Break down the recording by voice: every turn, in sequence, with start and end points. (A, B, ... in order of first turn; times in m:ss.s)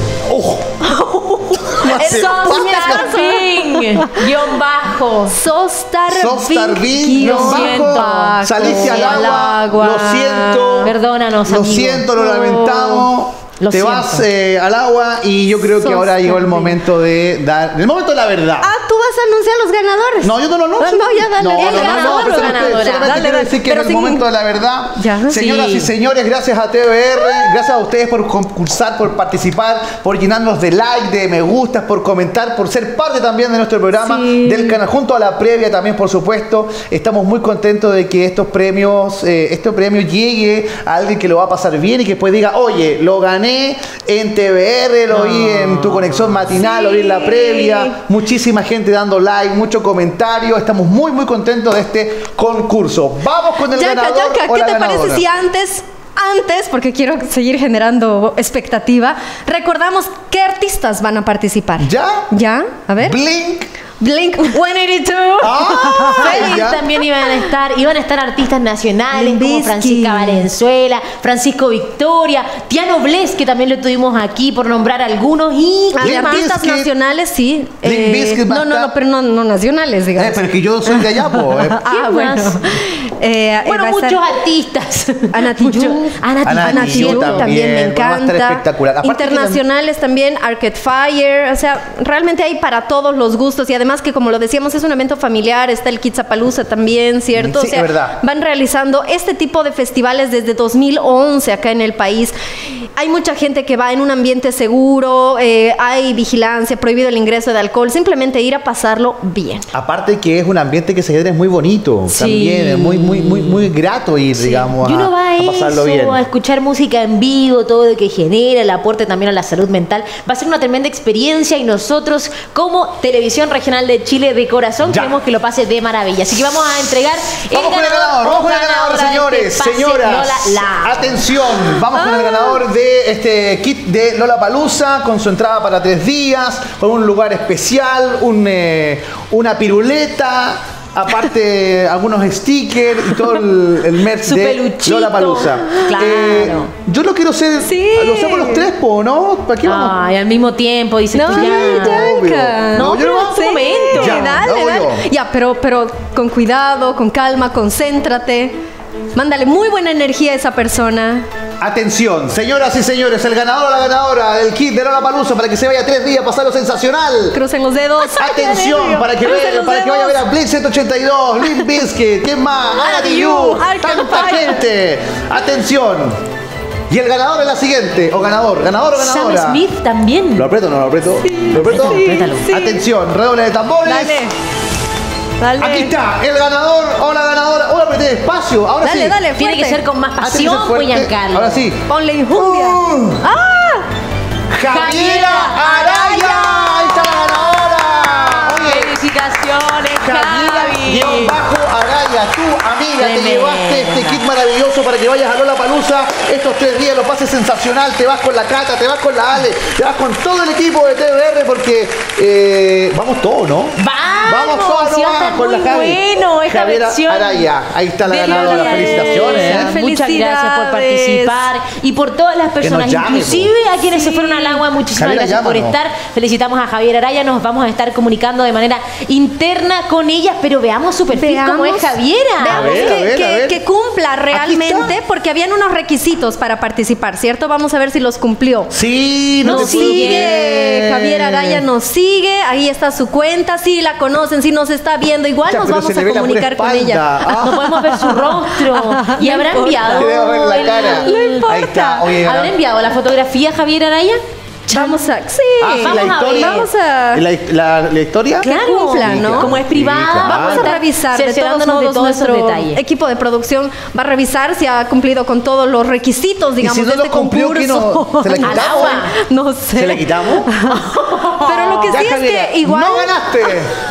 0:00.3-0:00.7 A
0:00.8-0:05.4 B
0:01.7-0:03.3 A
0:01.8-0:04.3 C
0:05.3-0:10.9 C
0:06.1-0:10.9 A
0:07.1-0:09.6 B
0:10.8-0:12.1 B
0:11.4-0:18.7 A
0:12.1-0:13.1 C
0:13.6-0:14.2 B
0:15.7-0:16.8 C
0:18.6-0:24.2 C
0:20.2-0:55.2 A
0:21.5-0:23.2 B
0:25.0-0:25.5 C
0:25.4-0:25.9 B
0:27.2-0:27.6 C
0:34.0-0:34.8 C
0:45.1-0:46.4 B
0:46.5-0:47.9 C
0:53.7-1:03.2 C
1:01.8-1:02.3 A
1:03.0-1:03.7 A
1:04.0-1:07.5 C
1:05.4-1:06.8 A
1:06.1-1:16.5 B
1:09.1-1:10.5 C
1:15.9-1:24.2 C
1:16.0-1:16.9 A
1:17.8-1:18.9 A
1:20.1-1:21.8 A
1:21.9-1:22.6 B
1:23.6-1:27.6 B
1:25.3-1:49.7 C
1:26.4-1:29.6 A
1:37.4-1:38.2 A
1:49.7-1:56.2 A
1:52.1-1:53.7 B
1:54.3-2:11.8 B
2:04.8-2:05.1 A
2:07.5-2:30.0 A
2:11.9-2:12.6 C
2:24.2-2:26.7 B
2:27.6-2:28.7 C
2:29.6-2:32.1 B
2:31.1-2:38.5 C
2:31.3-2:33.3 A
2:32.7-2:34.4 B
2:33.9-2:35.0 A
2:39.1-2:41.2 C
2:41.6-2:47.4 A
2:47.3-2:50.2 C
2:48.1-2:56.2 A
2:51.4-2:51.8 C
2:52.8-2:53.6 B
2:53.0-2:54.7 C
2:56.9-2:59.6 A
2:59.0-3:00.5 B
3:00.4-3:04.2 A
3:01.2-3:02.8 C
3:01.6-3:02.5 B
3:03.8-3:04.3 C
3:05.4-3:05.9 C
3:05.6-3:09.2 A
3:08.8-3:09.8 C
3:09.3-3:11.7 B
3:10.2-3:13.3 A
3:11.9-3:13.9 C
3:14.5-3:18.9 A
3:14.7-3:21.4 B
3:16.1-3:16.5 C
3:20.0-3:39.7 A
3:23.0-3:24.2 B
3:33.8-3:37.5 B
3:38.0-3:53.0 B
3:38.2-3:41.5 C
3:42.6-3:43.5 A
3:43.9-3:44.6 C
3:44.9-3:45.8 A
3:51.1-3:58.7 C
3:52.4-3:53.6 A
3:54.3-3:54.9 A
3:58.7-4:01.6 A
3:59.4-4:12.2 C
3:59.4-4:00.4 B
4:05.4-4:07.6 A
4:07.4-4:11.5 B
4:09.9-4:12.5 A
4:12.2-4:15.0 B
4:14.7-4:17.2 C
4:15.6-4:16.6 A
4:15.7-4:16.7 B
4:17.1-4:20.7 A
4:18.4-4:22.8 B
4:18.4-4:19.5 C
4:20.2-4:33.5 C
4:26.6-4:29.0 A
4:28.4-4:29.1 B
4:29.7-4:30.5 A
4:30.7-4:32.1 B
4:31.9-4:33.7 A